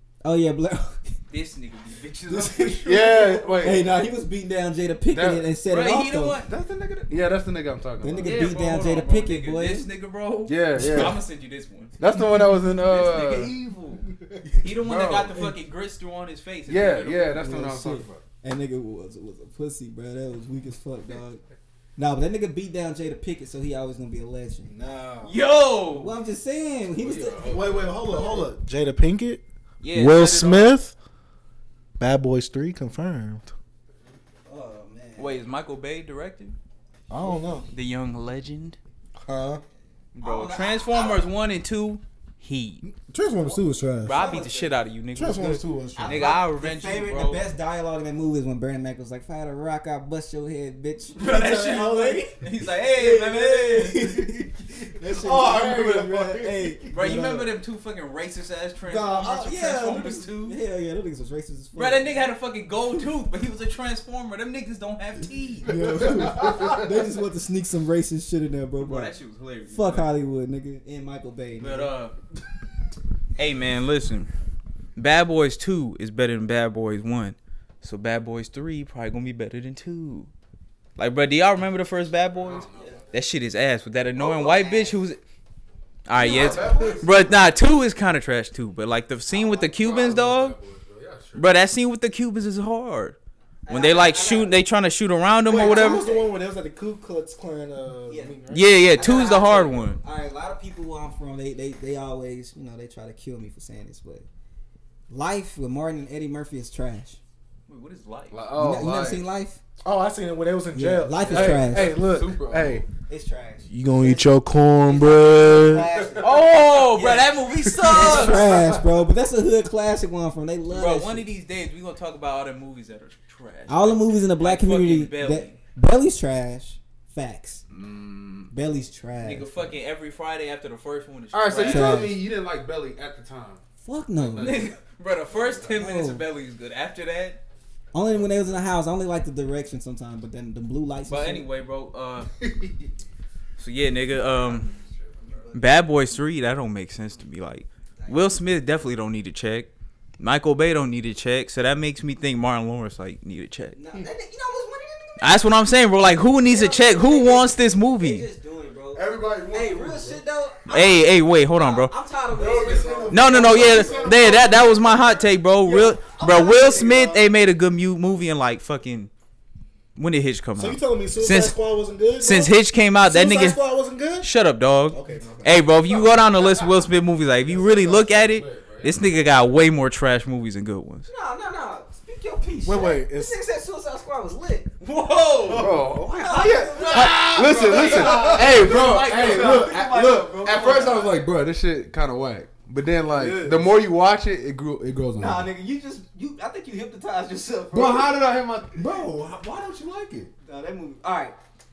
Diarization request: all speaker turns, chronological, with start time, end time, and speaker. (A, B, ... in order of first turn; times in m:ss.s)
0:00.2-0:01.2 A
0:01.3-0:03.6 B
0:02.3-0:06.4 A
0:02.8-0:03.9 C
0:05.1-0:05.4 C
0:05.7-0:06.5 B
0:06.4-0:08.5 C
0:08.0-0:09.9 A
0:08.2-0:12.0 B
0:10.5-0:11.2 C
0:10.8-0:11.2 A
0:12.0-0:13.6 C
0:12.7-0:14.0 B
0:14.6-0:17.5 B
0:14.8-0:15.5 C
0:16.7-0:18.2 C
0:17.3-0:21.4 A
0:22.0-0:24.7 A
0:24.7-0:25.3 D
0:25.2-0:26.1 B
0:25.9-0:28.1 A
0:26.9-0:28.4 C
0:27.4-0:30.9 D
0:29.8-0:30.8 B
0:32.0-0:33.5 D
0:34.4-0:35.4 A
0:35.2-0:36.6 B
0:37.1-0:37.7 D
0:37.2-0:37.7 A
0:37.7-0:38.8 B
0:39.2-0:39.6 D
0:40.2-0:41.2 A
0:40.2-0:42.8 B
0:42.8-0:44.2 D
0:44.0-0:47.4 B
0:44.0-0:44.7 A
0:45.1-0:46.3 D
0:46.0-0:51.3 A
0:51.2-0:54.3 B
0:51.2-0:52.3 D
0:52.7-0:57.5 A
0:55.0-0:56.9 D
0:56.9-1:00.6 B
0:58.9-1:02.1 A
1:01.8-1:05.8 B
1:05.7-1:09.1 A
1:05.7-1:06.8 D
1:06.1-1:06.8 C
1:08.8-1:10.1 B
1:09.7-1:11.9 A
1:11.6-1:12.2 B
1:13.4-1:14.3 B
1:15.0-1:20.3 B
1:21.0-1:25.2 B
1:22.3-1:23.1 C
1:22.7-1:23.0 A
1:24.2-1:25.0 A
1:26.0-1:30.6 B
1:26.2-1:27.3 C
1:26.2-1:27.0 D
1:29.3-1:29.7 A
1:29.8-1:31.5 C
1:31.4-1:36.1 B
1:33.6-1:34.5 A
1:35.4-1:38.9 D
1:35.5-1:36.3 A
1:38.1-1:38.4 A
1:38.5-1:40.0 B
1:39.0-1:44.2 A
1:45.1-1:47.2 A
1:47.7-1:48.4 B
1:48.3-1:49.3 C
1:48.5-1:49.6 A
1:49.8-1:52.8 D
1:50.7-1:52.0 A
1:51.3-1:52.8 C
1:53.0-2:01.2 A
1:53.7-1:55.9 D
1:56.2-1:58.5 B
1:57.9-1:58.4 D
1:58.0-1:58.8 C
2:00.7-2:05.6 B
2:03.7-2:07.6 A
2:07.7-2:08.5 C
2:08.5-2:09.5 A
2:09.2-2:12.1 B
2:11.3-2:13.6 C
2:11.5-2:12.2 A
2:13.8-2:14.7 A
2:14.2-2:15.7 C
2:14.3-2:17.4 B
2:15.7-2:16.2 A
2:17.9-2:21.5 A
2:18.1-2:18.6 C
2:21.1-2:22.3 B
2:22.4-2:22.8 C
2:23.6-2:24.7 B
2:24.2-2:25.6 C
2:25.2-2:25.6 A
2:25.5-2:33.8 B
2:28.0-2:28.3 A
2:33.7-2:35.5 A
2:35.2-2:38.2 B
2:36.4-2:44.4 A
2:38.9-2:40.2 C
2:40.7-2:41.9 B
2:42.3-2:44.7 C
2:43.1-2:49.1 B
2:43.7-2:45.0 D
2:45.7-2:47.2 D
2:45.8-2:47.1 A
2:50.0-2:51.6 B
2:50.6-2:54.3 D
2:52.2-2:53.6 B
2:54.2-3:01.1 B
2:54.9-2:55.7 D
2:57.5-2:59.0 C
3:01.1-3:04.7 A
3:02.6-3:03.4 D
3:04.8-3:05.8 B
3:05.5-3:09.9 D
3:05.5-3:06.1 C
3:05.9-3:11.2 A
3:06.8-3:15.5 C
3:07.7-3:09.7 B
3:13.1-3:13.7 D
3:15.2-3:18.1 A
3:17.7-3:20.3 C
3:20.4-3:21.4 A